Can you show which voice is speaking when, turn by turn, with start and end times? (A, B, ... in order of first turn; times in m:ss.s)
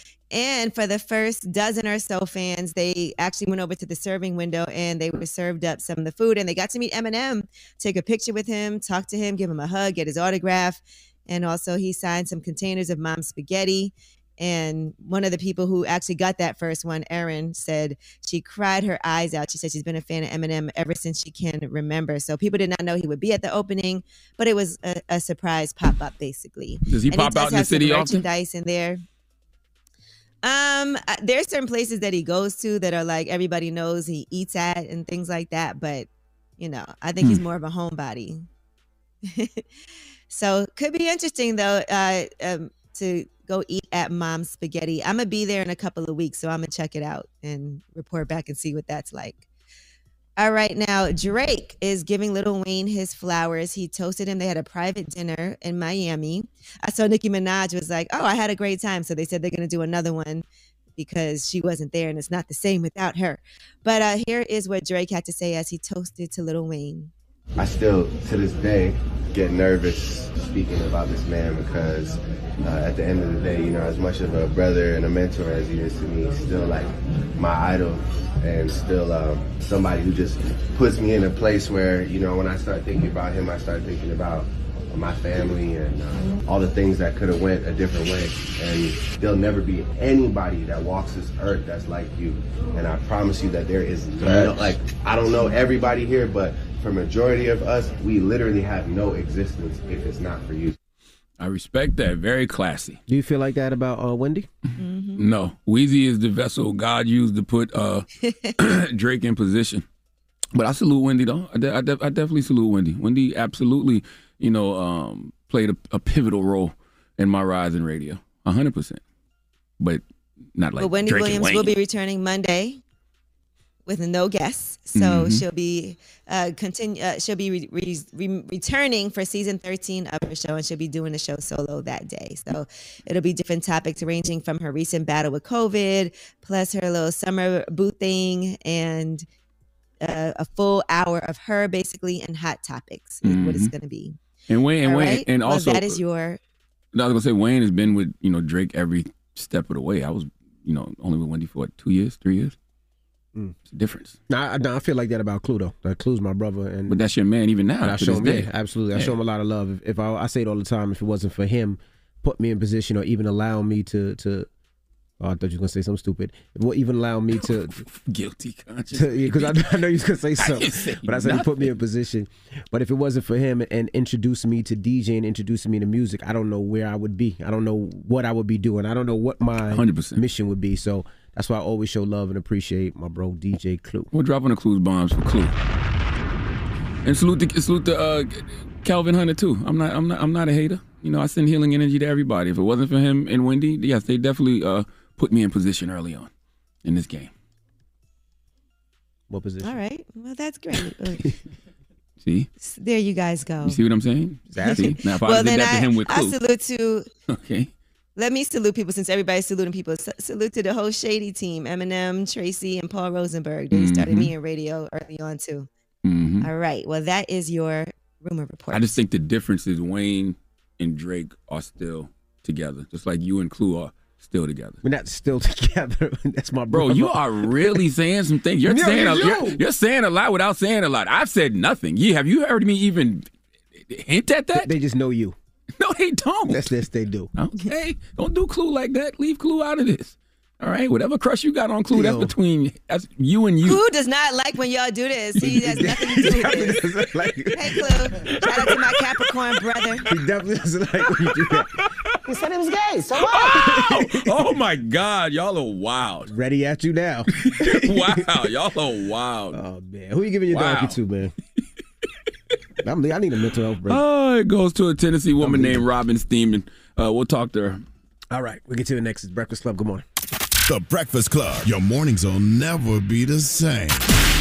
0:00.3-0:29.0 A
0:26.8-0:28.2 B
0:30.4-0:36.1 A
0:36.6-0:38.5 A
0:39.2-0:39.6 A
0:40.3-0:49.4 A
0:50.4-1:00.4 A
1:01.0-1:07.1 A
1:07.6-1:40.8 C
1:34.2-1:34.7 D
1:41.4-1:43.0 B
1:43.1-1:44.5 D
1:44.8-1:45.2 A
1:45.2-1:48.1 B
1:48.6-1:49.8 B
1:50.5-1:59.0 B
2:00.6-2:01.7 B
2:00.8-2:02.8 A
2:03.8-2:19.2 A
2:04.9-2:05.4 B
2:20.0-2:24.2 A
2:23.2-2:23.7 B
2:24.5-2:26.0 B
2:24.8-2:26.4 A
2:26.9-2:32.5 B
2:33.7-2:34.2 B
2:34.3-2:37.0 D
2:36.9-2:39.1 B
2:37.8-2:44.5 D
2:45.2-2:47.8 D
2:47.4-2:49.8 B
2:48.9-3:04.1 D
2:50.4-2:51.7 B
2:59.7-3:00.2 B
3:04.1-3:05.5 B
3:07.0-3:16.3 B
3:16.8-3:17.3 B
3:19.3-3:19.8 D
3:19.6-3:21.2 A
3:22.2-3:22.5 B
3:22.6-3:23.8 A
3:23.6-3:26.4 B
3:24.5-3:25.0 D
3:24.5-3:27.0 A
3:27.3-3:27.7 B
3:28.2-3:35.7 A
3:33.7-3:34.3 B
3:36.0-3:36.5 B
3:36.4-3:39.0 A
3:38.7-3:44.8 B
3:44.8-3:47.8 D
3:46.7-3:53.3 B
3:48.6-3:49.6 D
3:53.9-3:54.7 B
3:54.5-3:55.4 D
3:55.8-3:56.7 B
3:56.5-3:57.3 D
3:57.4-4:03.8 B
4:01.9-4:02.3 D
4:03.6-4:06.8 A
4:05.4-4:07.8 D
4:07.6-4:10.0 A
4:10.1-4:11.7 D
4:12.3-4:14.3 D
4:13.2-4:16.3 B
4:16.3-4:18.3 D
4:17.4-4:19.6 B
4:19.5-4:21.3 D
4:20.5-4:21.0 B
4:22.8-4:24.0 D
4:23.9-4:27.8 B
4:25.4-4:25.8 D
4:28.3-4:30.0 D
4:30.7-4:34.0 E